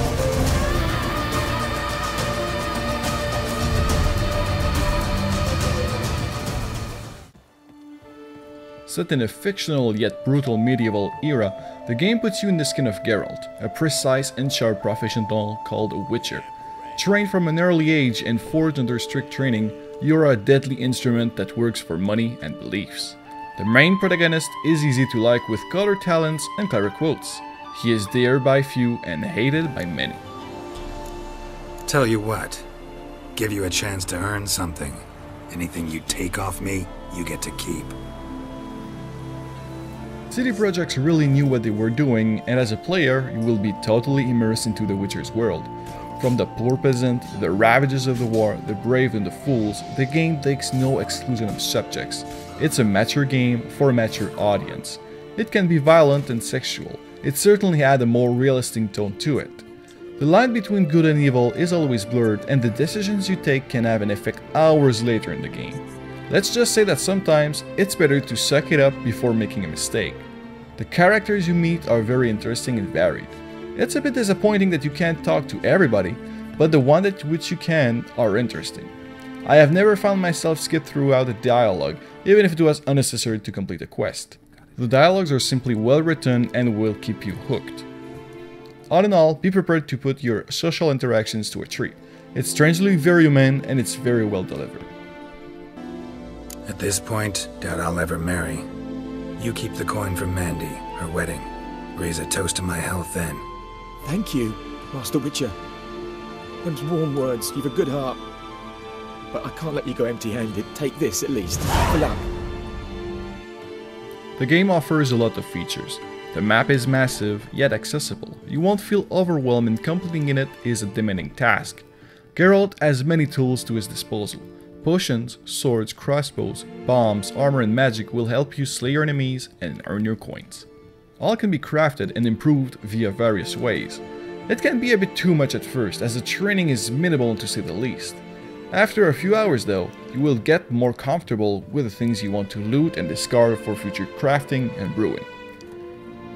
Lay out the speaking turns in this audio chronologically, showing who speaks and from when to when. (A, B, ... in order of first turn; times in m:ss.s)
0:08.9-0:30.2 A
0:31.9-0:32.7 B
0:33.4-0:38.0 B
0:40.3-0:59.6 A
1:00.2-1:18.9 A
1:19.4-1:27.9 A
1:28.9-1:34.9 A
1:36.7-1:38.7 B
1:39.4-1:43.4 B
1:44.0-1:45.6 C
1:46.6-1:48.2 C
1:49.3-1:52.2 C
1:54.4-2:10.7 A
2:11.2-2:25.3 A